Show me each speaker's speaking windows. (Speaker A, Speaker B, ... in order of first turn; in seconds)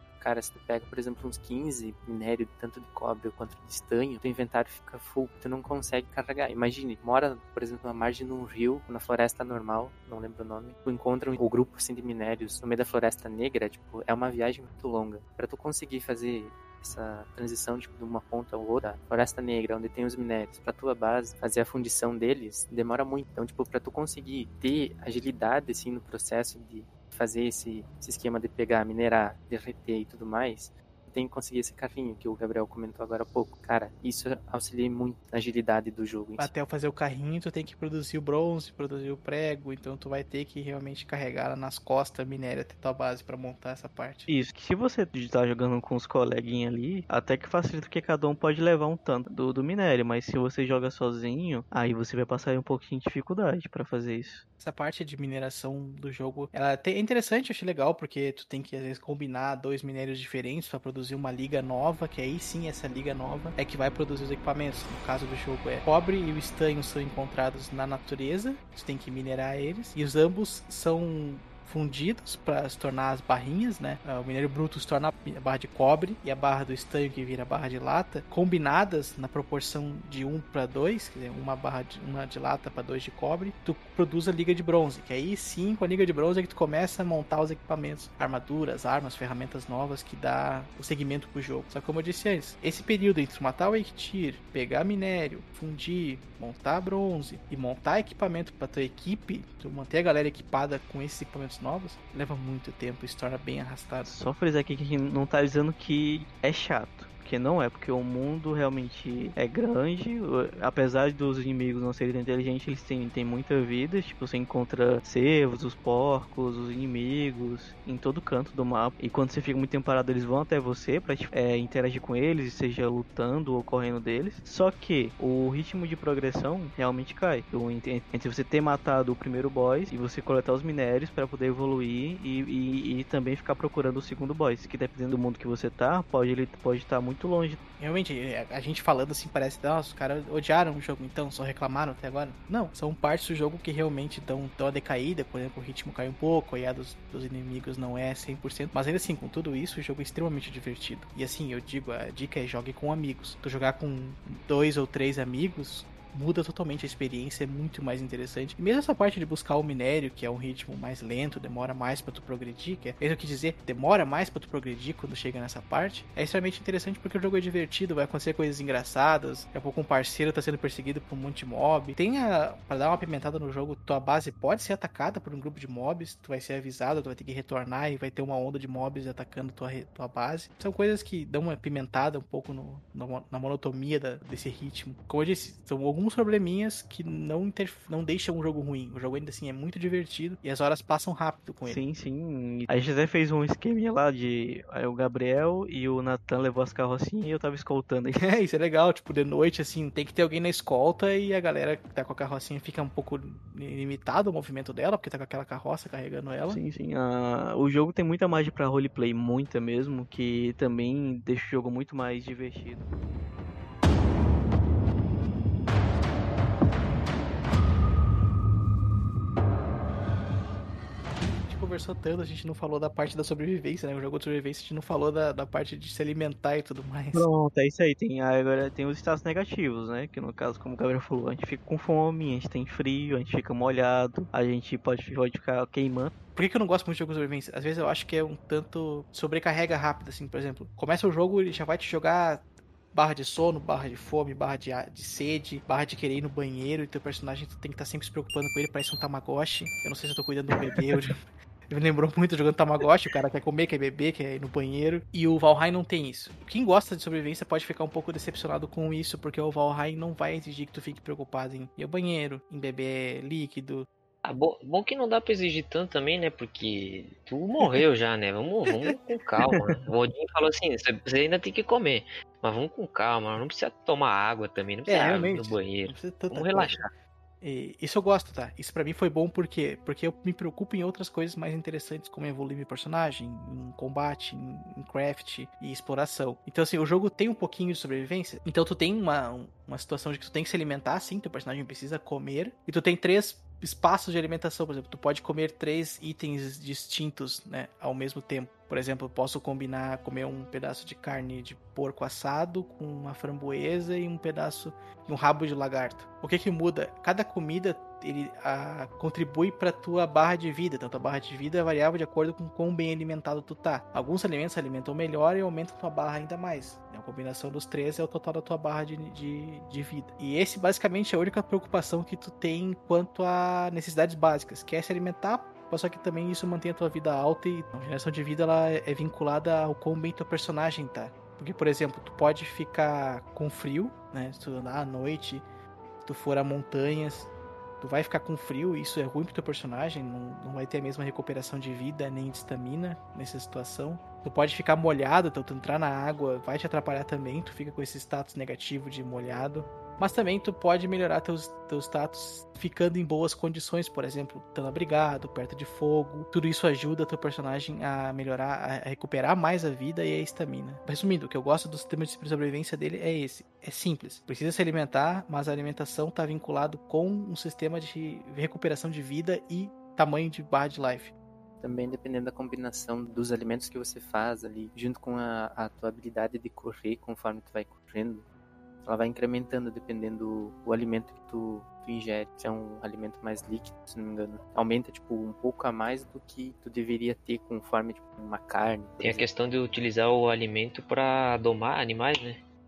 Speaker A: 0.2-36.5, 371.6-378.2, 378.8-389.2
Speaker B: 36.4-44.3, 54.6-104.1, 137.8-191.8, 198.2-206.6, 221.4-227.3, 236.3-251.2, 251.7-263.9, 274.9-276.8, 277.4-335.4, 336.0-337.3, 337.8-371.1
Speaker C: 44.3-54.4, 104.0-137.6, 191.6-198.3, 206.5-212.9, 227.1-236.1
Speaker D: 264.2-276.9, 389.0-392.4